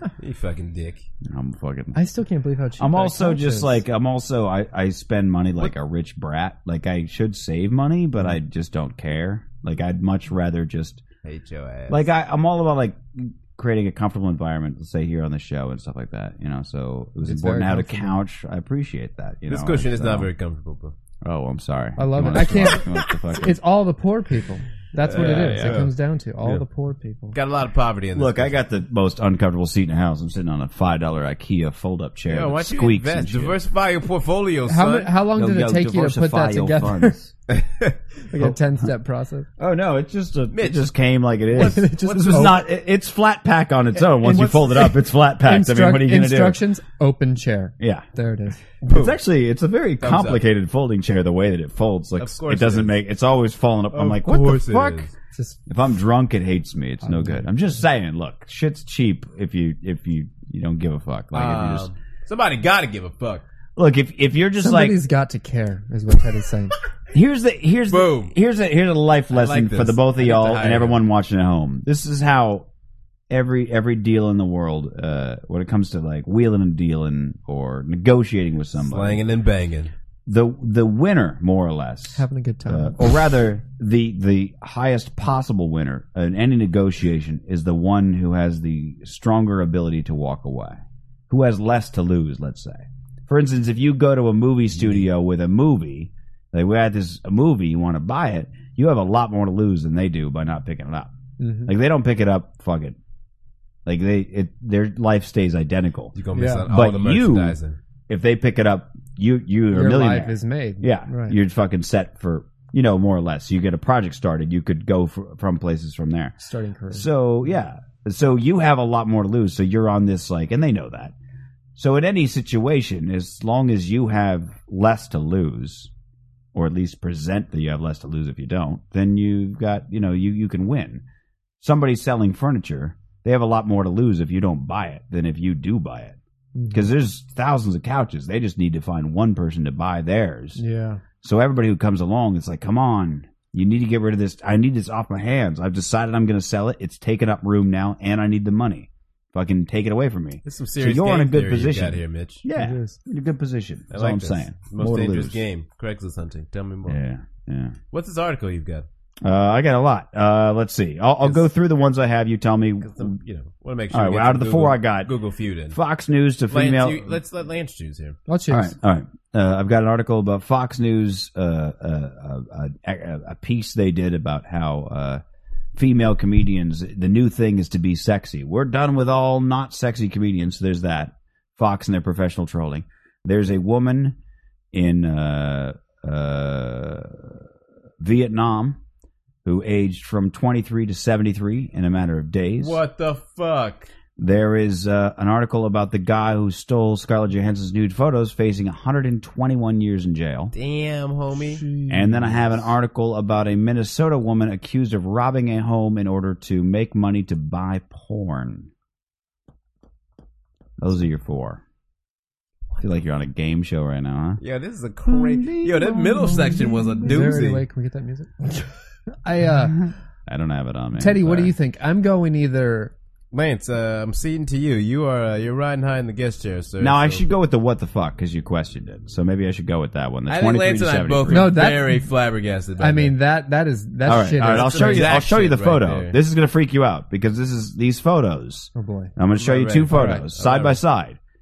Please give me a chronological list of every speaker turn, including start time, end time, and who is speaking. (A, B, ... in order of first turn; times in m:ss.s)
0:00.2-0:01.1 A
0:01.2-0:02.0 B
0:01.9-0:03.8 C
0:02.8-0:11.0 B
0:11.2-0:12.1 A
0:11.9-0:20.3 B
0:17.2-0:18.2 C
0:19.5-0:20.9 A
0:21.2-0:23.6 B
0:22.0-0:27.4 C
0:25.0-0:25.9 A
0:25.1-0:25.8 B
0:27.3-0:28.6 A
0:28.1-0:33.6 B
0:32.3-0:35.1 A
0:34.7-0:37.1 C
0:35.3-0:37.3 B
0:37.5-0:38.0 A
0:38.3-0:39.5 C
0:39.6-0:46.6 B
0:40.5-0:40.9 A
0:41.5-0:42.6 A
0:41.6-0:42.6 C
0:44.0-0:48.7 C
0:47.8-0:48.1 B
0:48.8-0:55.1 B
0:48.8-0:49.2 A
0:50.0-0:50.4 A
0:52.2-0:53.0 A
0:53.9-0:55.1 A
0:55.7-1:01.9 B
0:57.0-0:57.4 C
1:01.3-1:03.4 A
1:03.8-1:05.0 B
1:04.6-1:06.7 C
1:07.1-1:12.7 B
1:07.9-1:08.3 A
1:09.3-1:11.0 A
1:13.3-1:19.2 B
1:18.8-1:19.9 A
1:20.2-1:41.1 B
1:22.1-1:23.0 C
1:41.4-1:41.7 C
1:41.6-1:43.0 B
1:43.8-1:47.6 B
1:46.2-1:47.8 A
1:46.3-1:46.7 C
1:48.1-1:56.4 B
1:49.7-1:51.4 C
1:56.4-1:57.1 C
1:56.9-2:01.1 B
2:01.8-2:05.9 B
2:06.5-2:11.0 B
2:11.6-2:16.2 B
2:16.5-2:16.9 C
2:16.7-2:20.6 B
2:20.6-2:21.0 C
2:21.2-2:35.4 B
2:30.4-2:32.4 A
2:32.5-2:33.0 C
2:33.9-2:37.0 A
2:36.8-2:37.8 B
2:37.9-2:38.8 A
2:39.2-2:43.1 B
2:42.8-2:45.8 A
2:43.9-2:45.1 B
2:45.7-2:47.2 B
2:46.5-2:48.2 A
2:48.3-2:48.7 C
2:48.5-2:55.2 B
2:55.8-3:04.2 B
3:04.7-3:07.4 B
3:08.0-3:08.8 B
3:09.4-3:12.8 B
3:12.6-3:13.9 A
3:14.2-3:20.5 B
3:20.5-3:21.6 A
3:21.4-3:22.7 C
3:21.9-3:28.7 B
3:30.8-3:31.6 B
3:32.8-3:34.4 B
3:34.4-3:37.6 A
3:35.0-3:37.5 B
3:37.0-3:38.7 C
3:39.2-3:39.8 C
3:39.6-3:41.5 B
3:41.0-3:42.9 C
3:43.3-3:47.2 A
3:46.8-3:51.5 B
3:50.3-3:53.2 A
3:51.3-3:52.1 C
3:52.8-3:55.1 C
3:54.0-4:01.2 B
3:54.4-3:56.2 A
3:58.7-3:59.1 C
3:59.4-4:00.8 A